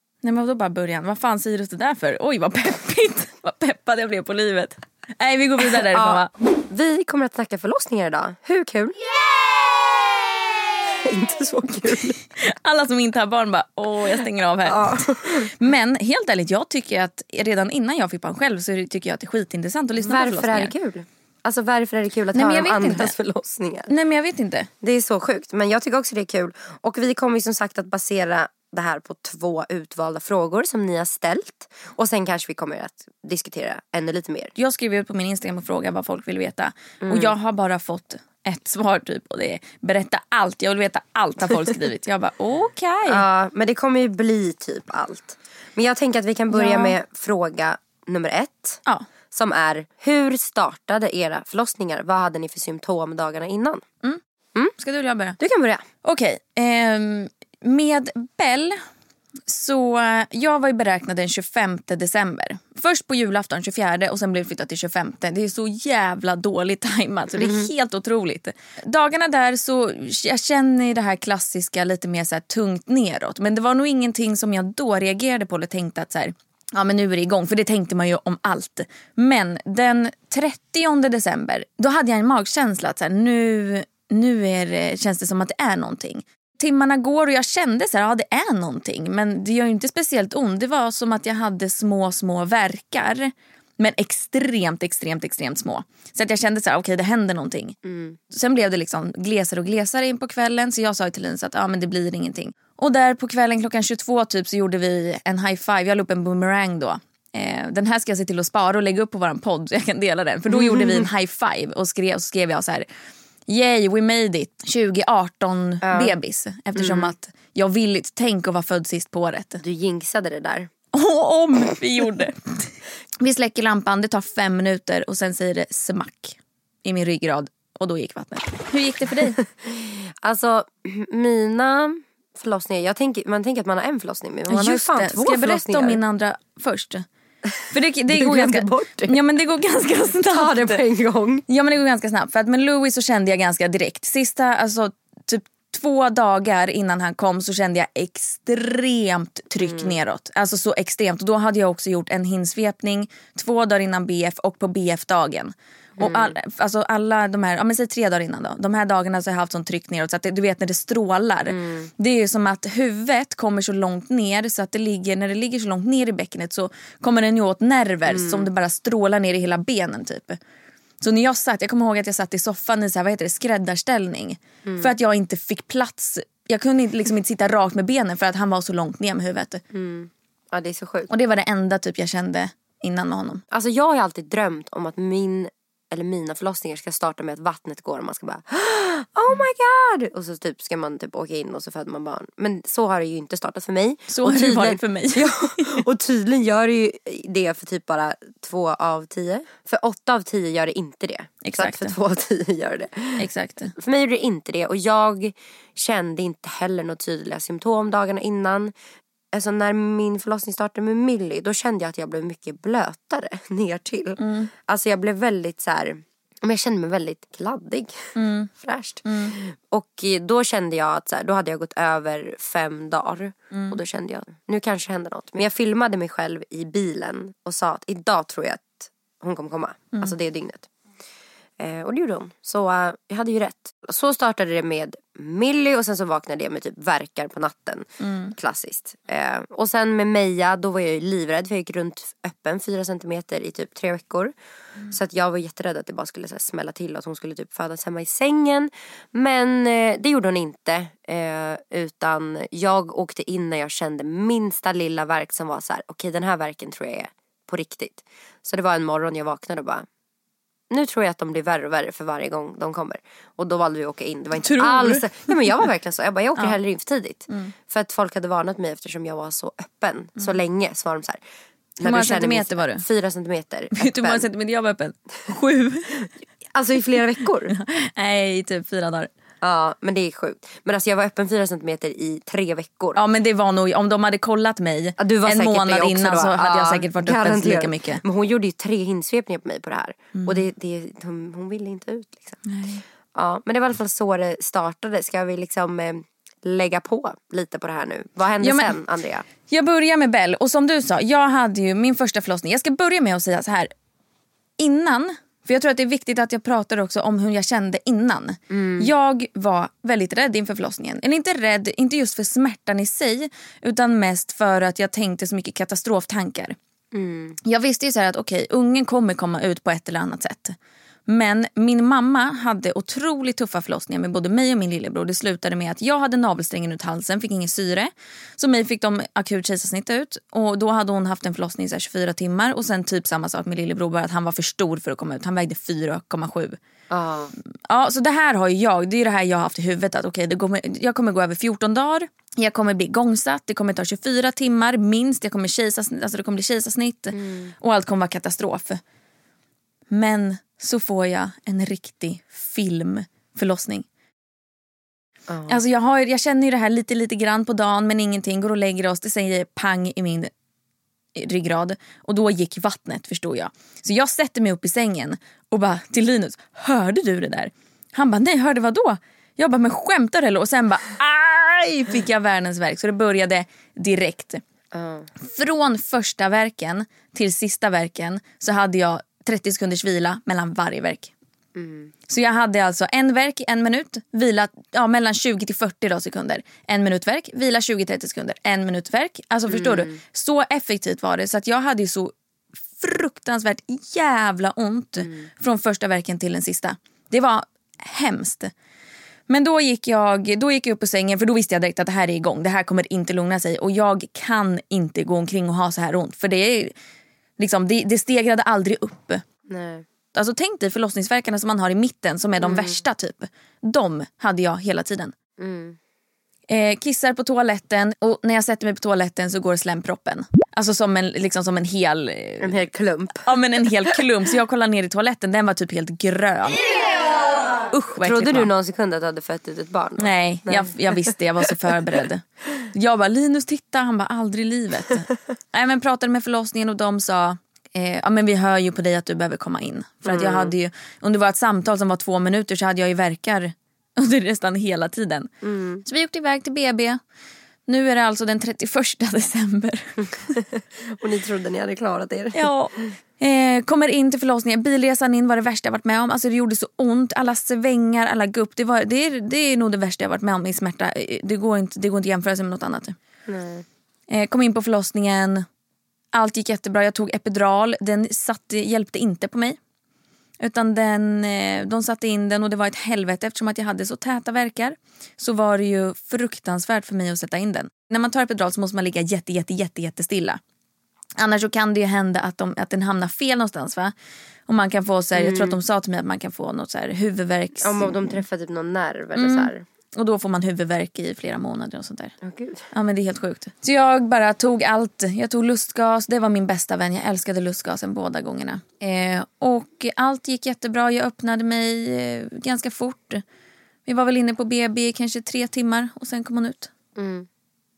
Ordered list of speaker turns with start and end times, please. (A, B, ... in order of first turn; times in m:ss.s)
0:00.2-0:06.3 A
0:05.8-0:12.2 B
0:11.9-0:20.7 A
0:14.6-0:15.5 B
0:20.0-0:23.9 B
0:22.3-0:23.1 A
0:23.9-0:24.7 A
0:24.8-0:34.5 B
0:34.6-0:43.2 A
0:37.0-0:37.3 B
0:43.0-0:53.8 B
0:46.5-0:47.0 A
0:54.8-0:55.4 A
0:55.4-0:55.8 B
0:56.0-0:58.8 A
0:59.5-1:37.8 A
1:07.4-1:07.7 B
1:37.8-1:38.2 B
1:38.3-1:52.9 A
1:50.5-1:51.1 B
1:53.5-1:59.6 A
1:55.8-1:56.1 B
1:56.8-1:57.1 B
1:59.6-2:00.7 B
2:00.9-2:09.4 A
2:09.5-2:16.0 B
2:14.5-2:17.0 A
2:17.4-2:19.2 B
2:17.7-2:20.8 A
2:20.3-2:21.4 B
2:21.5-2:50.4 A
2:29.6-2:30.0 B
2:36.0-2:36.4 B
2:41.5-2:41.9 B
2:48.1-2:48.5 B
2:51.0-2:59.6 A
2:54.6-2:54.9 B
2:59.7-3:01.1 B
3:01.1-3:03.4 A
3:03.5-3:23.2 B
3:14.1-3:15.8 A
3:21.4-3:22.0 A
3:23.2-3:23.7 A
3:23.7-3:28.7 B
3:29.3-3:50.7 B
3:34.2-3:34.5 A
3:38.2-3:38.5 A
3:39.0-3:39.4 A
3:43.5-3:43.8 A
3:51.6-4:04.3 B
3:58.0-3:58.3 A
4:04.9-4:19.8 B
4:20.7-4:31.2 B
4:24.4-4:25.5 A
4:31.8-4:34.2 B
4:31.8-4:32.8 A
4:33.8-4:36.0 A
4:36.0-4:37.5 B
4:37.5-4:39.1 A
4:39.4-4:43.0 B
4:42.9-4:48.0 A
4:45.0-4:52.4 B
4:50.1-4:50.4 A
4:52.4-4:52.8 A
4:53.1-4:59.2 B
4:58.4-4:58.8 A
4:59.4-5:03.7 A
5:04.6-5:16.6 A
5:08.5-5:08.9 B
5:16.9-5:17.4 B
5:17.4-5:20.6 A
5:21.1-5:36.6 A
5:36.9-5:37.3 B
5:37.7-5:48.8 A
5:47.1-5:47.5 B
5:49.9-5:53.8 A
5:55.3-5:55.6 B
5:55.5-6:00.3 A
6:01.1-6:14.4 A
6:14.7-6:15.1 B
6:15.2-6:21.1 A
6:21.5-6:21.9 B
6:22.1-6:32.1 A
6:29.5-6:30.0 B
6:32.7-6:38.5 A
6:35.0-6:35.3 B
6:39.3-6:46.7 A
6:47.4-6:49.2 A
6:49.5-6:49.8 B
6:50.1-6:55.1 A
6:52.4-6:52.8 B
6:55.4-6:55.8 B
6:56.5-7:02.6 A
7:02.4-7:03.4 B
7:03.2-7:06.7 A
7:07.7-7:08.5 A
7:08.0-7:11.1 B
7:10.0-7:25.3 A
7:20.0-7:20.5 B
7:25.4-7:25.8 B
7:25.8-7:27.0 A
7:27.7-7:30.4 A
7:30.8-7:32.9 B
7:32.3-7:43.0 A
7:43.3-7:43.6 B
7:44.1-7:45.4 A
7:46.1-7:49.6 A
7:50.4-8:00.4 A
8:01.2-8:03.9 A
8:04.5-8:08.2 A
8:05.1-8:05.6 B
8:07.6-8:09.6 B
8:09.1-8:12.1 A
8:12.2-8:12.6 B
8:12.7-8:23.2 A
8:23.8-8:26.7 A
8:27.0-8:27.3 B